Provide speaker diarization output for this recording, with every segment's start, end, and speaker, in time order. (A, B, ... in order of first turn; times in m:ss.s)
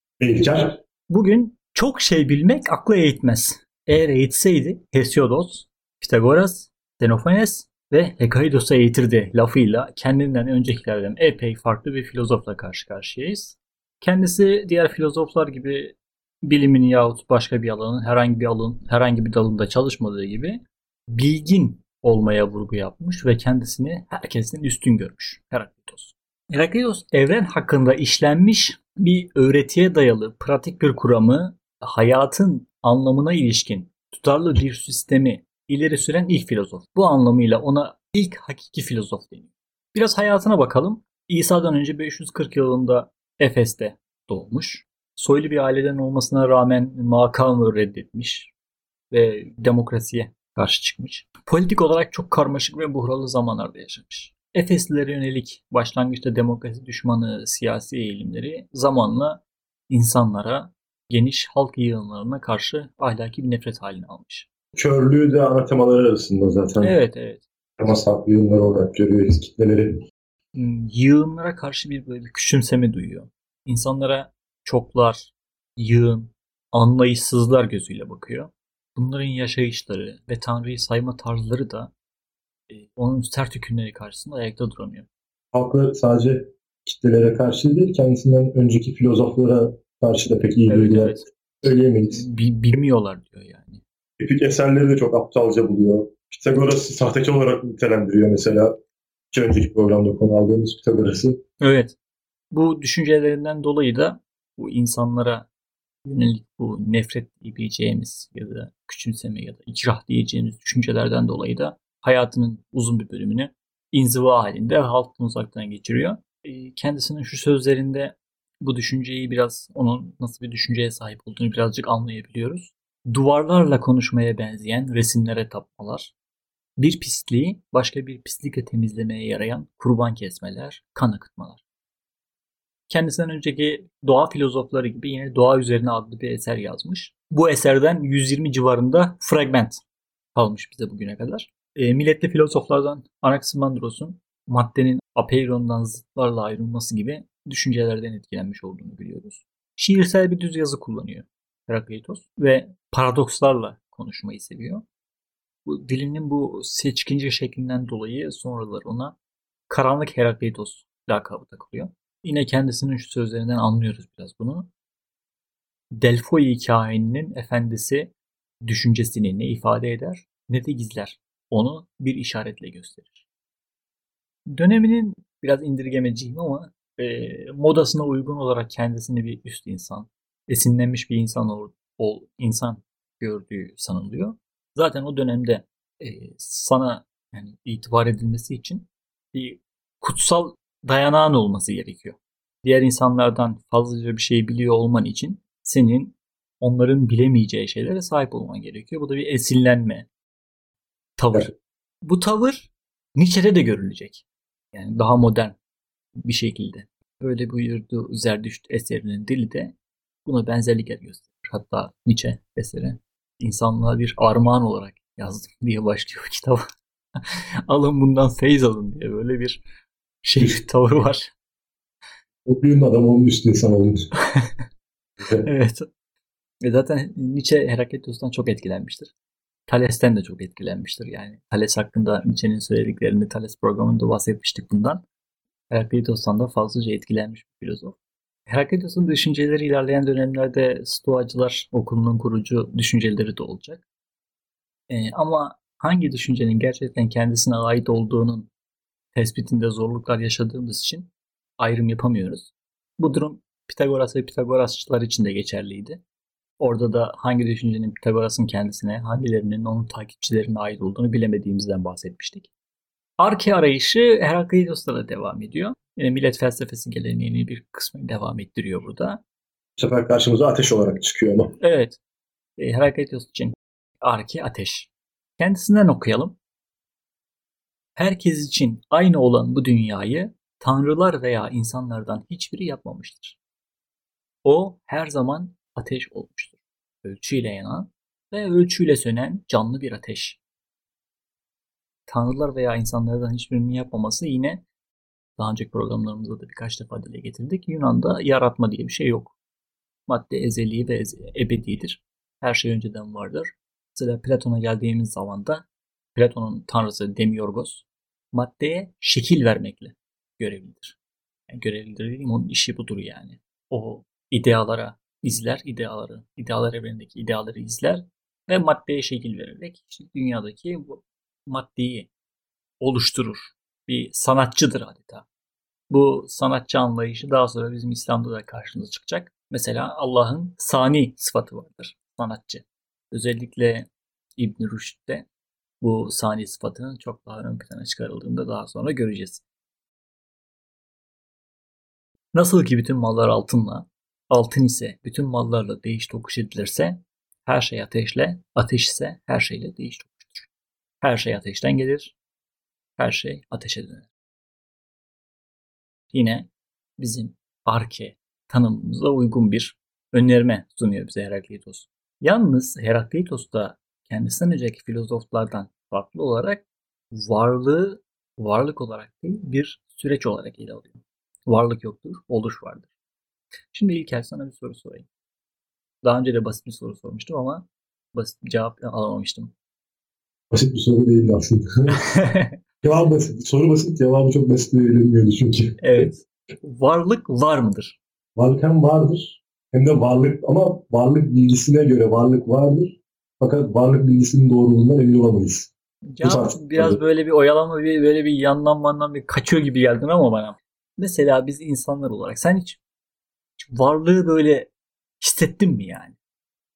0:00.2-0:00.8 A
0:01.1-0:48.5 B
0:49.1-1:04.5 B
1:04.8-1:07.0 A
1:06.8-1:07.4 B
1:07.8-1:10.0 A
1:10.5-1:21.9 B
1:22.7-1:25.1 B
1:25.5-1:32.2 A
1:30.7-1:33.8 B
1:34.2-1:38.8 A
1:39.3-1:41.4 A
1:41.6-1:42.0 B
1:42.5-1:45.5 B
1:46.0-2:06.1 B
2:06.8-2:11.6 B
2:12.9-2:19.8 B
2:20.4-2:34.8 B
2:35.7-2:39.2 B
2:39.7-2:44.7 B
2:46.0-2:48.1 B
2:48.7-2:53.2 B
2:54.5-3:20.1 B
3:21.2-3:21.5 B
3:22.0-3:25.6 B
3:26.2-3:36.6 B
3:37.2-3:39.6 B
3:40.2-3:41.3 B
3:42.4-3:44.1 A
3:44.2-3:44.7 B
3:45.2-3:45.5 A
3:45.4-3:45.9 B
3:46.6-3:49.1 B
3:49.7-3:55.0 B
3:55.7-3:58.0 B
3:58.5-4:03.8 B
4:04.9-4:08.5 B
4:09.2-4:16.0 B
4:16.6-4:22.5 B
4:23.2-4:29.2 B
4:29.8-4:31.5 A
4:31.6-4:32.0 B
4:32.6-4:36.4 B
4:38.0-4:43.4 B
4:44.4-4:50.4 B
4:52.1-4:54.7 B
4:55.4-4:59.4 B
5:00.1-5:11.0 B
5:11.5-5:22.1 B
5:22.8-5:25.3 B
5:25.9-5:35.3 B
5:35.8-5:39.4 B
5:42.3-5:50.5 B
5:51.0-5:52.2 B
5:53.0-5:54.1 B
5:56.1-6:12.9 B
6:13.7-6:15.1 B
6:16.0-6:19.6 B
6:20.5-6:22.0 A
6:21.9-6:22.6 B
6:22.8-6:26.1 A
6:25.8-6:28.0 B
6:28.4-6:35.7 A
6:36.1-6:42.8 B
6:36.2-6:37.0 A
6:43.6-6:46.2 B